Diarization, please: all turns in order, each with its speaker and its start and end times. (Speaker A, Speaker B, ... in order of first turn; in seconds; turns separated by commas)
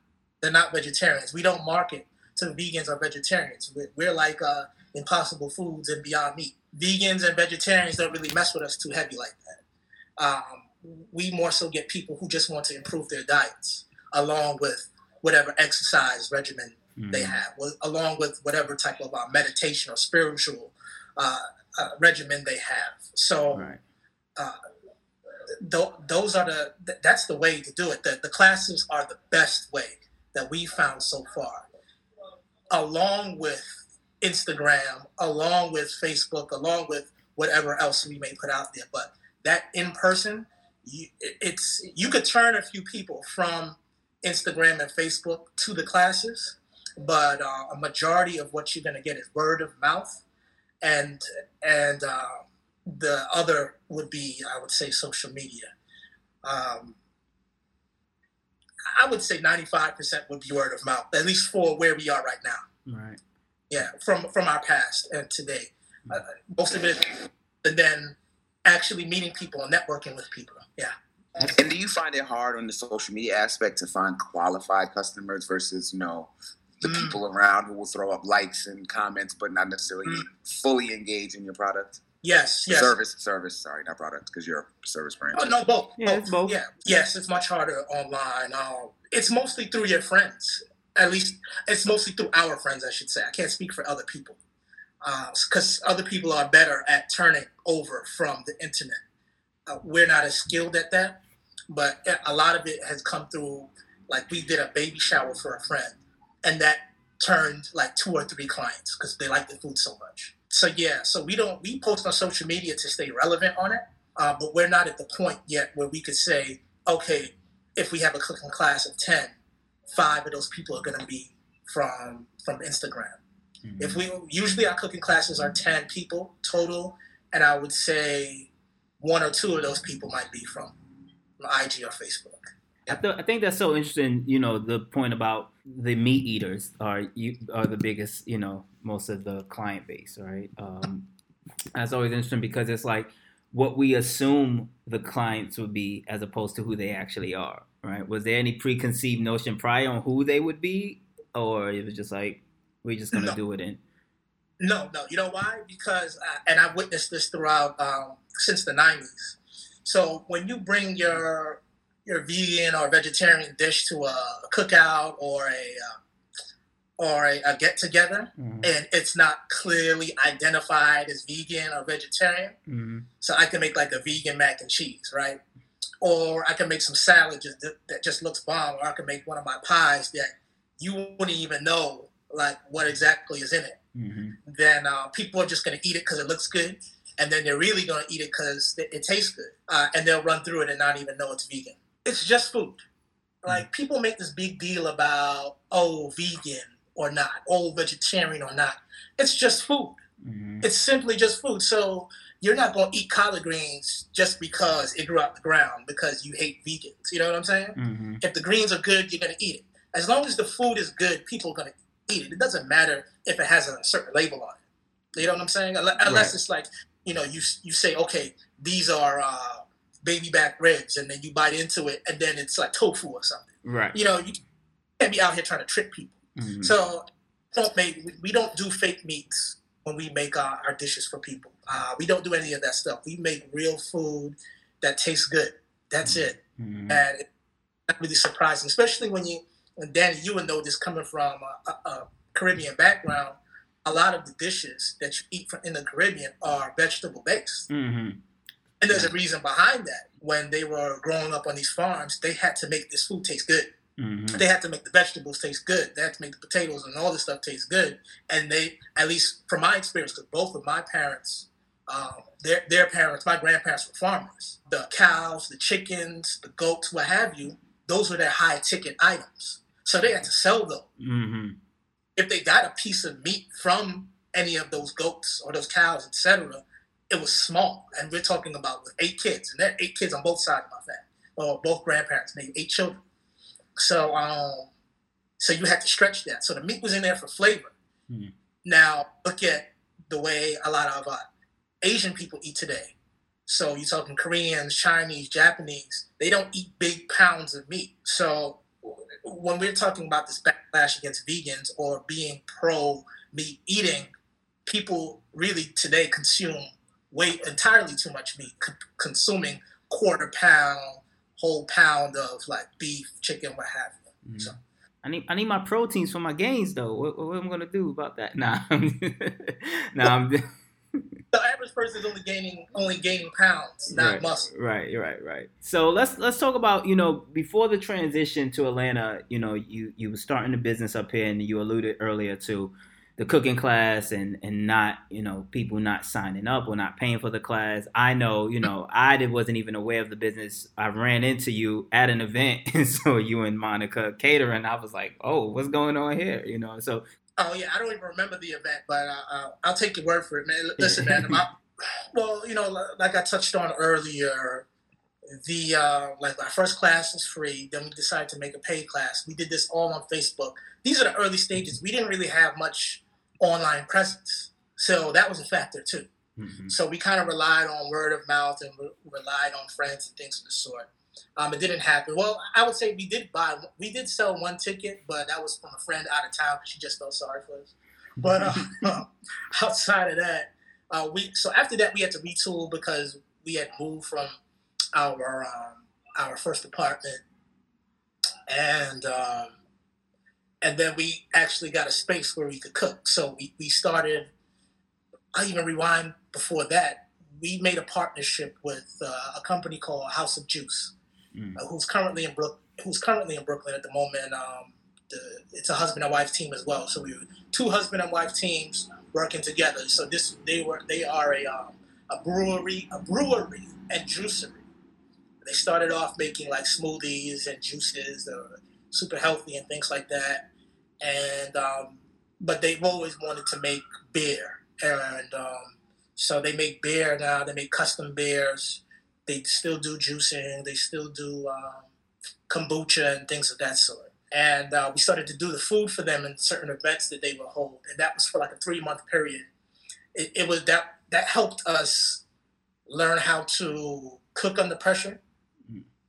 Speaker A: 0.4-9.6, Speaker A: 10.2-23.7, Speaker B: 17.0-17.4, Speaker B: 23.5-23.8, Speaker A: 25.6-31.7, Speaker A: 32.7-50.2, Speaker A: 50.8-55.7, Speaker A: 56.4-57.0, Speaker A: 58.9-62.6, Speaker B: 62.9-63.2, Speaker A: 63.7-71.6, Speaker C: 71.6-82.0, Speaker A: 76.8-77.2, Speaker A: 82.2-83.0, Speaker C: 82.7-85.6, Speaker A: 85.3-94.4, Speaker B: 86.0-86.6, Speaker A: 95.0-99.0, Speaker A: 99.7-119.3, Speaker A: 119.9-123.2, Speaker B: 123.6-124.0, Speaker A: 123.8-130.8, Speaker A: 131.4-133.0, Speaker B: 132.9-141.1, Speaker B: 141.8-153.8, Speaker A: 154.6-166.0, Speaker A: 167.0-172.6, Speaker B: 168.4-168.7, Speaker B: 172.7-173.1, Speaker A: 173.2-175.4, Speaker A: 176.0-183.8, Speaker B: 183.9-184.4, Speaker A: 184.5-192.8, Speaker A: 193.4-200.0, Speaker B: 200.2-200.7, Speaker A: 200.6-214.6, Speaker B: 207.8-208.2, Speaker A: 215.2-224.4, Speaker B: 216.0-216.4, Speaker B: 223.6-224.0, Speaker A: 225.0-236.4, Speaker B: 226.4-226.8, Speaker B: 236.0-237.0, Speaker A: 236.9-237.2, Speaker A: 237.9-247.7, Speaker B: 247.7-248.2, Speaker A: 248.8-253.7, Speaker B: 254.0-254.4, Speaker A: 254.3-270.9, Speaker B: 271.0-271.6, Speaker A: 272.2-283.0, Speaker A: 283.8-284.7, Speaker A: 285.4-287.8, Speaker A: 288.6-291.2, Speaker A: 291.8-292.9, Speaker A: 293.5-304.1, Speaker A: 304.7-314.6, Speaker B: 314.2-321.0, Speaker A: 321.3-324.5, Speaker B: 323.9-347.0, Speaker A: 347.4-351.6, Speaker B: 350.8-351.4, Speaker A: 352.1-354.7, Speaker A: 355.3-366.1, Speaker B: 366.4-366.8, Speaker A: 366.7-384.4, Speaker B: 378.2-378.9, Speaker A: 384.9-387.2, Speaker A: 388.5-389.6, Speaker A: 390.6-394.3, Speaker A: 395.3-400.9, Speaker B: 401.4-401.6, Speaker A: 401.6-414.6, Speaker A: 415.4-420.5, Speaker A: 421.0-431.9, Speaker A: 432.5-439.5, Speaker A: 440.1-442.2, Speaker A: 442.9-445.2